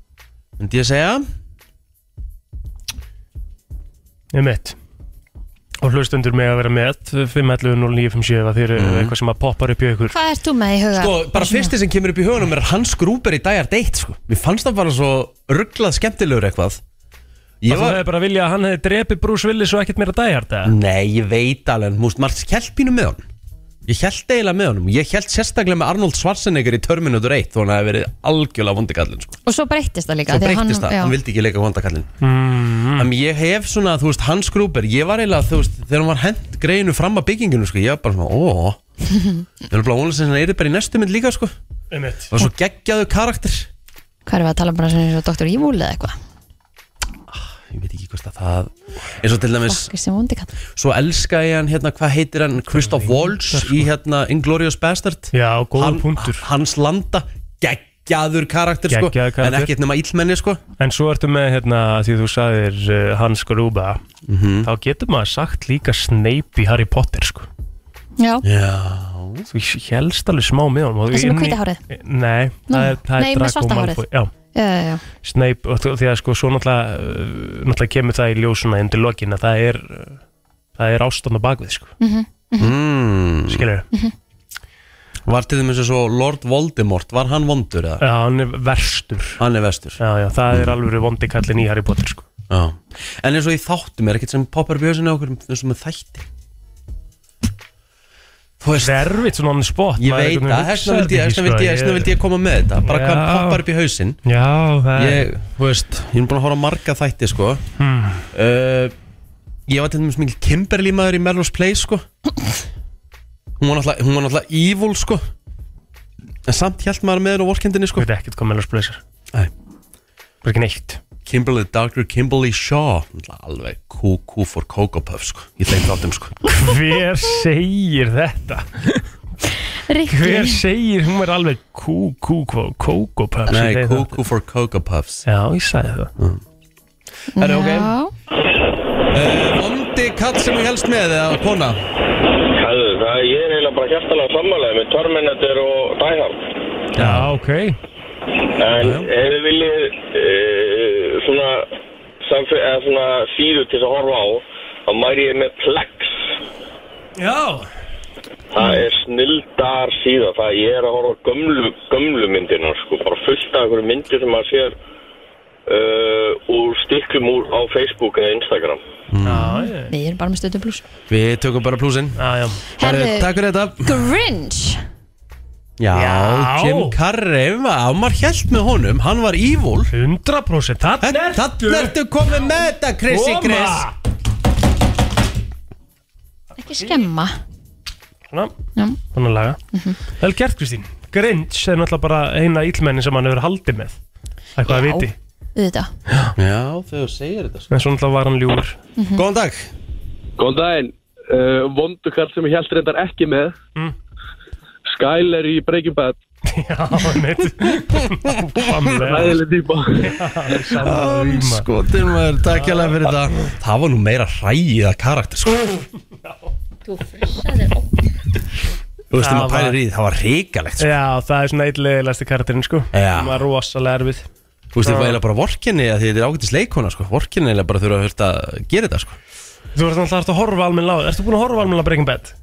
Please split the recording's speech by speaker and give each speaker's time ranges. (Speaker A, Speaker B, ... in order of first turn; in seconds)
Speaker A: 0.6-1.2, 8.8-9.1, 10.9-16.8, 17.6-18.0, 20.6-23.2, 23.9-29.4, 30.3-32.1, 32.9-38.8, 39.7-41.5, 42.3-43.7, 47.3-49.9, 50.8-60.6, 64.3-64.7, 68.4-69.5, 82.6-83.7, 85.3-88.0, 89.4-90.0, 92.5-96.3, 98.6-99.1, 100.0-104.2, 105.0-107.6, 108.3-108.9, 109.7-112.0, 113.6-115.2, 116.5-118.1, 121.2-126.4, 133.5-135.2, 137.4-137.9, 139.1-141.8, 146.9-147.3, 148.8-149.1, 169.1-169.6, 171.1-172.2, 172.8-174.0, 175.8-179.9, 181.0-183.8, 196.3-197.7, 199.2-199.7, 210.7-215.8, 219.1-220.9, 222.9-223.4, 224.7-229.2
Speaker B: 4.3-4.8, 5.8-10.1, 17.7-20.7, 32.2-33.1, 41.9-42.3, 52.7-53.9, 55.3-56.4, 58.9-59.7, 60.8-64.0, 64.6-67.5, 69.5-74.3, 75.2-80.2, 80.8-81.9, 83.5-83.9, 88.0-89.4, 90.0-92.2, 98.8-102.1, 102.8-103.6, 104.3-105.3, 107.8-108.3, 118.0-119.0, 120.4-121.0, 126.4-129.1, 130.1-134.1, 135.3-136.1, 147.0-147.8, 157.2-157.7, 169.2-169.9, 172.2-172.6, 175.9-176.9, 179.9-181.9, 183.1-183.9, 189.1-189.6, 190.2-194.0, 194.6-195.1, 196.1-196.3, 197.7-198.8, 206.5-209.4, 210.0-211.7, 212.5-213.1, 219.2-219.8, 220.8-224.3, 224.8-225.2, 229.7-232.3
Speaker C: 10.1-11.7, 29.4-31.1, 44.3-46.1, 49.6-50.5, 68.2-68.4, 71.1-71.8, 72.7-75.0, 82.0-82.8, 129.9-130.6, 137.3-138.1, 169.3-170.8, 172.8-174.8, 186.6-187.3, 194.7-195.9, 199.0-199.2, 217.2-217.5
Speaker D: 142.5-146.4, 148.6-151.7, 152.2-156.3, 158.5-164.7, 165.7-168.8
Speaker E: 201.5-203.5, 205.2-206.1